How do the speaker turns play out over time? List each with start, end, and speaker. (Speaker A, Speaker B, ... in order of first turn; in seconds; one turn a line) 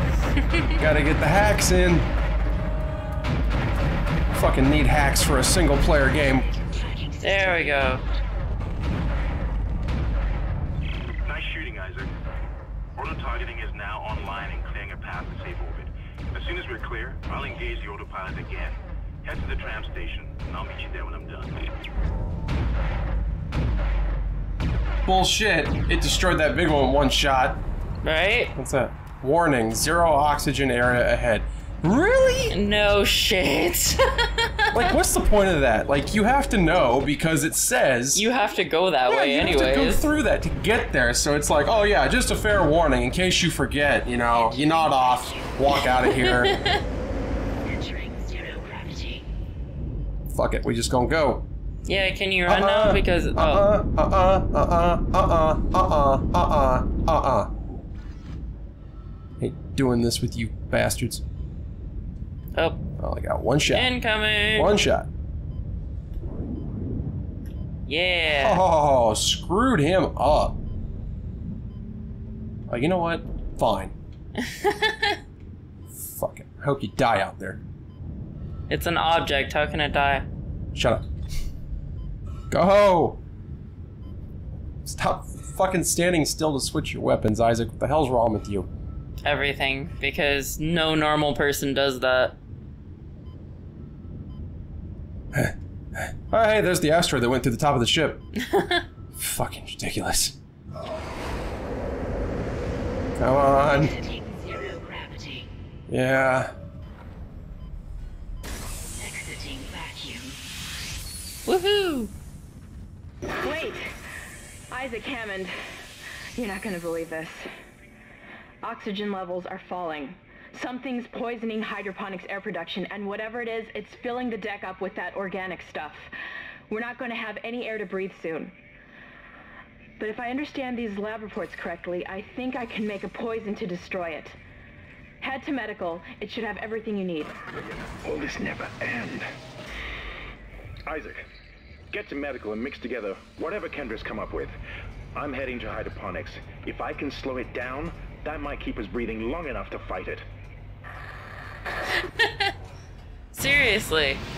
Speaker A: 0.4-0.8
Speaker B: 0.8-2.1
Speaker B: 4.3-6.5
Speaker C: 6.1-8.1
Speaker A: 7.2-8.0
Speaker D: 11.2-12.1
Speaker D: 12.9-21.6
Speaker B: 25.0-27.6
Speaker A: 28.0-28.5
Speaker B: 28.6-32.6
Speaker A: 32.5-35.0
Speaker B: 34.7-38.2
Speaker A: 38.1-40.0
Speaker B: 39.1-46.5
Speaker C: 44.3-45.9
Speaker A: 45.7-46.8
Speaker C: 47.6-49.3
Speaker B: 50.3-51.4
Speaker A: 51.9-53.7
Speaker B: 52.5-57.5
Speaker B: 59.4-61.2
Speaker A: 62.5-62.8
Speaker B: 63.0-63.9
Speaker A: 63.7-64.8
Speaker B: 64.5-65.1
Speaker A: 67.8-68.6
Speaker B: 68.4-70.6
Speaker B: 72.7-73.9
Speaker A: 74.4-75.2
Speaker B: 75.9-77.6
Speaker A: 78.7-80.2
Speaker B: 80.7-81.0
Speaker B: 82.5-83.2
Speaker B: 84.8-88.7
Speaker A: 89.2-92.3
Speaker B: 95.3-98.2
Speaker A: 98.4-98.8
Speaker B: 99.2-100.4
Speaker B: 103.2-103.9
Speaker C: 103.6-105.5
Speaker B: 105.9-106.5
Speaker C: 109.0-110.4
Speaker A: 111.5-112.1
Speaker E: 113.4-113.9
Speaker E: 114.7-115.5
Speaker E: 116.3-117.5
Speaker E: 118.6-126.1
Speaker E: 126.7-128.6
Speaker E: 130.0-134.4
Speaker E: 135.2-137.4
Speaker F: 138.0-139.3
Speaker F: 140.8-141.3
Speaker F: 141.9-144.5
Speaker F: 145.1-150.2
Speaker A: 151.9-152.5
Speaker A: 153.3-154.2